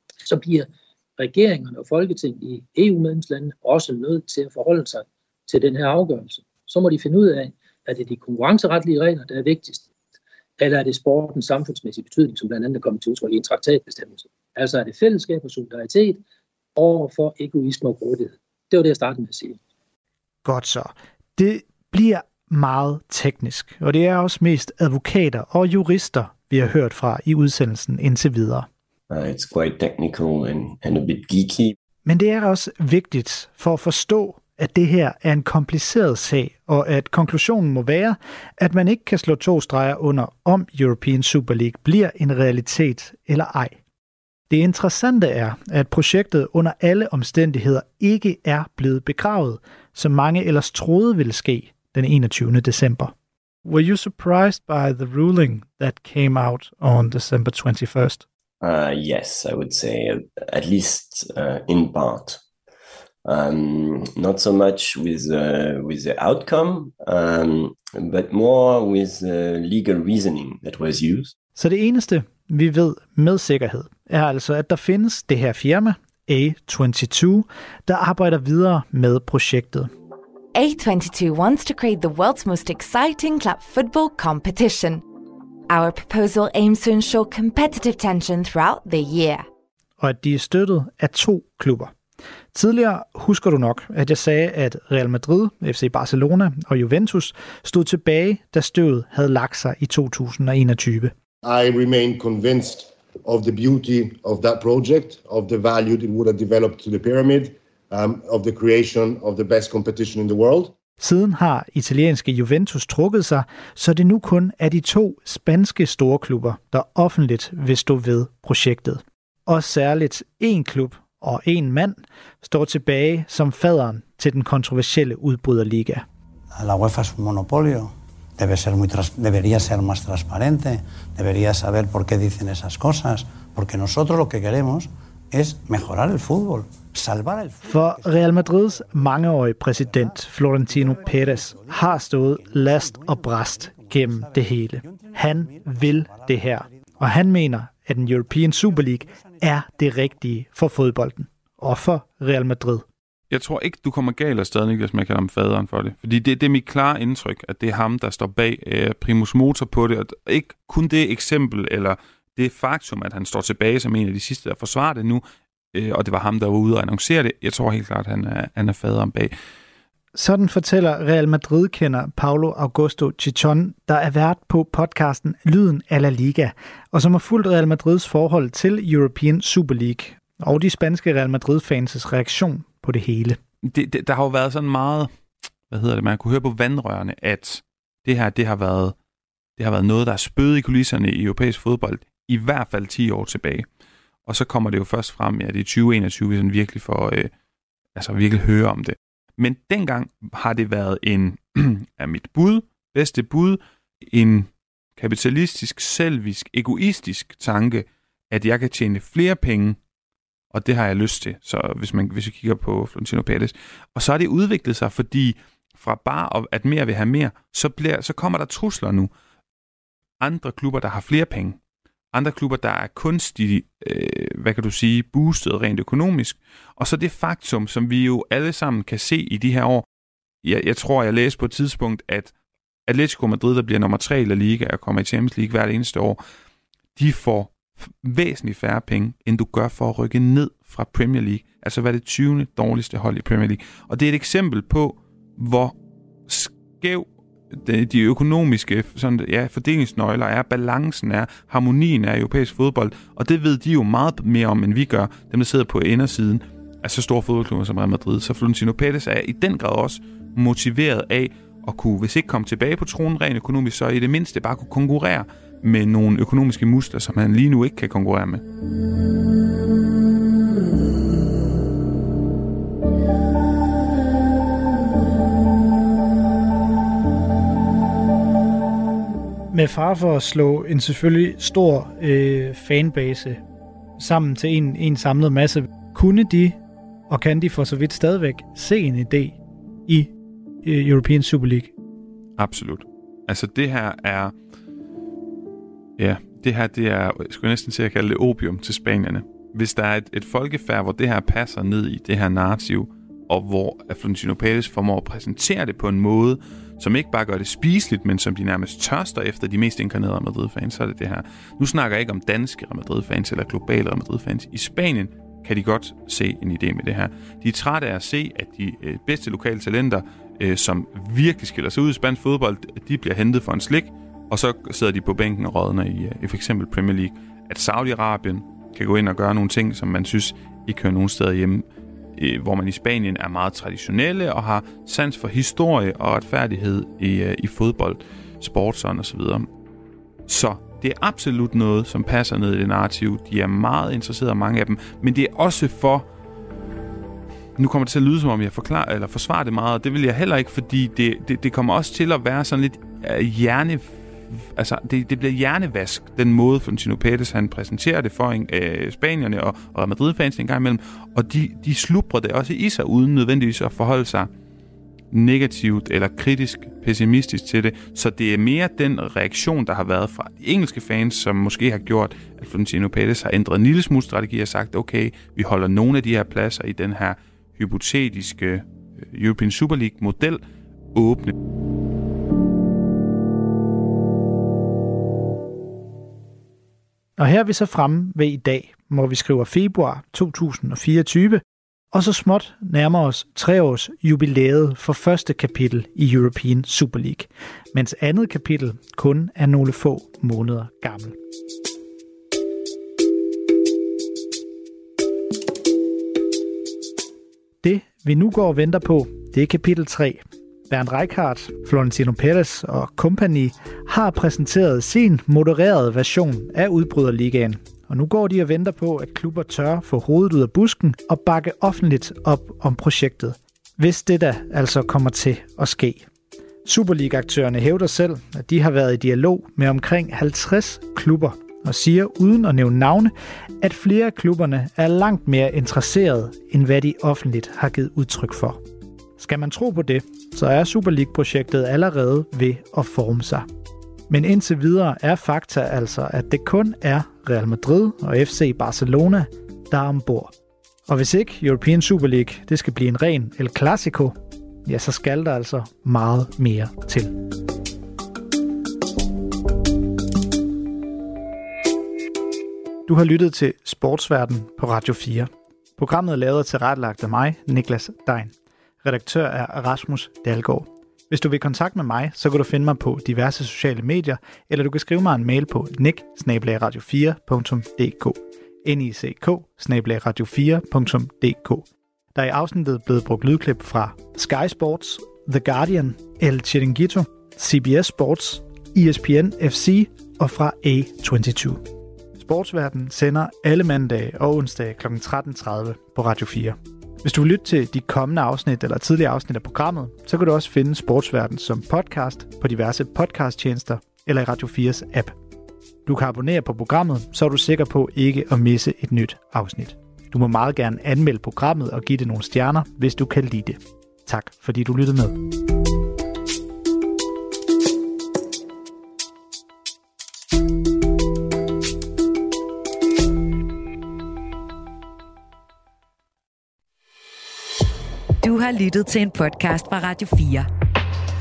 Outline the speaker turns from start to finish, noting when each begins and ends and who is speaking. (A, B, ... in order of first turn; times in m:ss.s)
0:00.2-0:00.7 A
0:01.2-0:09.8 A
0:10.6-0:16.2 A
0:16.8-0:19.6 A
0:20.4-0:28.7 B
0:29.1-0:31.8 C
0:32.0-0:43.8 B
0:44.5-0:53.1 B
0:53.6-0:58.2 B
0:58.6-1:02.4 C
1:03.3-1:11.3 C
1:11.6-1:19.9 B
1:20.6-1:25.0 D
1:25.7-1:29.4 D
1:30.0-1:31.9 B
1:32.5-1:41.1 B
1:41.4-1:50.7 E
1:51.0-2:06.0 B
2:06.6-2:18.2 F
2:17.6-2:32.8 B
2:20.7-2:26.9 F
2:33.3-2:49.3 G
2:50.1-3:03.4 B
3:03.6-3:05.1 G
3:05.7-3:09.0 G
3:09.6-3:13.7 G
3:14.3-3:17.3 G
3:18.0-3:29.8 G
3:30.5-3:39.1 G
3:40.2-3:41.6 G
3:42.1-3:49.9 G
3:50.4-3:52.3 G
3:52.9-3:56.2 G
3:57.0-4:05.8 G
4:06.3-4:28.4 G
4:39.5-4:43.4 B
4:44.0-4:46.6 B
4:47.1-4:50.1 B
4:50.6-4:51.7 B
4:52.4-4:54.4 G
4:56.0-5:39.5 G
5:40.3-5:46.1 G
5:47.6-6:04.3 G
6:05.1-6:20.4 G
6:21.0-6:21.3 G
6:27.2-6:41.2 B
6:47.6-7:06.1 B
7:06.6-7:18.6 B
7:19.2-7:23.5 B
7:24.1-7:30.3 B
7:30.9-7:37.2 B
7:42.9-8:11.6 B
8:12.2-8:25.2 B
8:25.9-8:35.2 B
8:48.2-8:50.5 H